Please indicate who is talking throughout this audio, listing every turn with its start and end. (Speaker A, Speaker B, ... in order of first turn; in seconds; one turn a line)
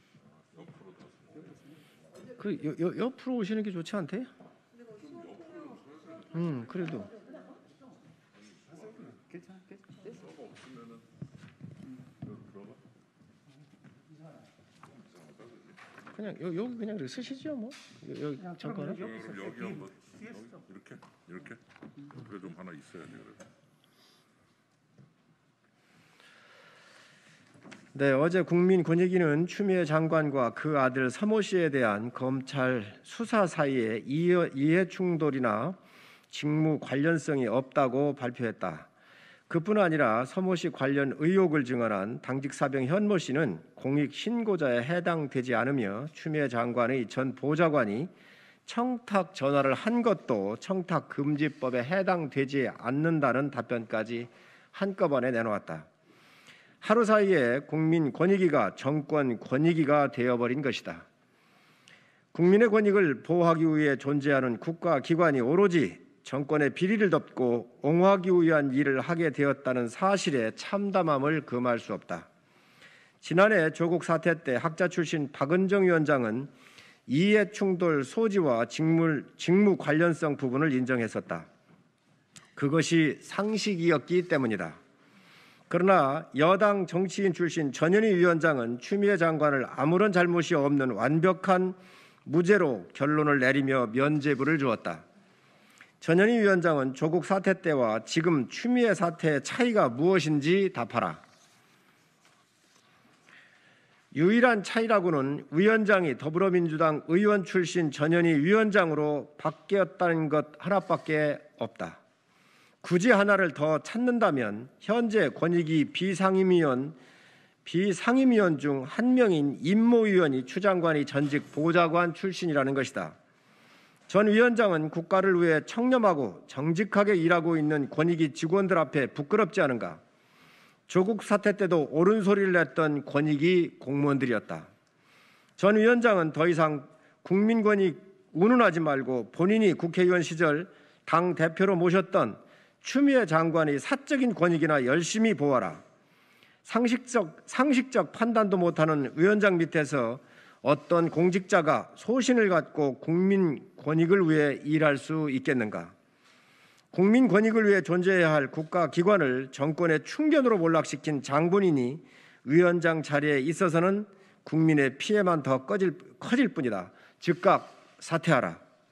Speaker A: 0.5-1.6
Speaker B: 2.3-4.3
Speaker A: 5.0-6.3
Speaker B: 6.3-7.2
Speaker A: 8.7-9.4
Speaker A: 10.0-11.0
Speaker A: 12.2-12.8
Speaker B: 16.1-19.1
Speaker A: 18.9-23.4
Speaker B: 27.9-35.8
Speaker B: 36.3-38.9
Speaker B: 39.5-48.1
Speaker B: 48.6-55.9
Speaker B: 56.8-61.0
Speaker B: 62.3-72.3
Speaker B: 73.2-76.5
Speaker B: 77.1-81.5
Speaker B: 82.5-84.8
Speaker B: 85.7-95.0
Speaker B: 96.0-101.2
Speaker B: 104.1-112.0
Speaker B: 112.8-117.0
Speaker B: 117.6-123.2
Speaker B: 124.1-130.0
Speaker B: 130.9-134.7
Speaker B: 135.6-145.8
Speaker B: 146.6-155.9
Speaker B: 156.9-168.6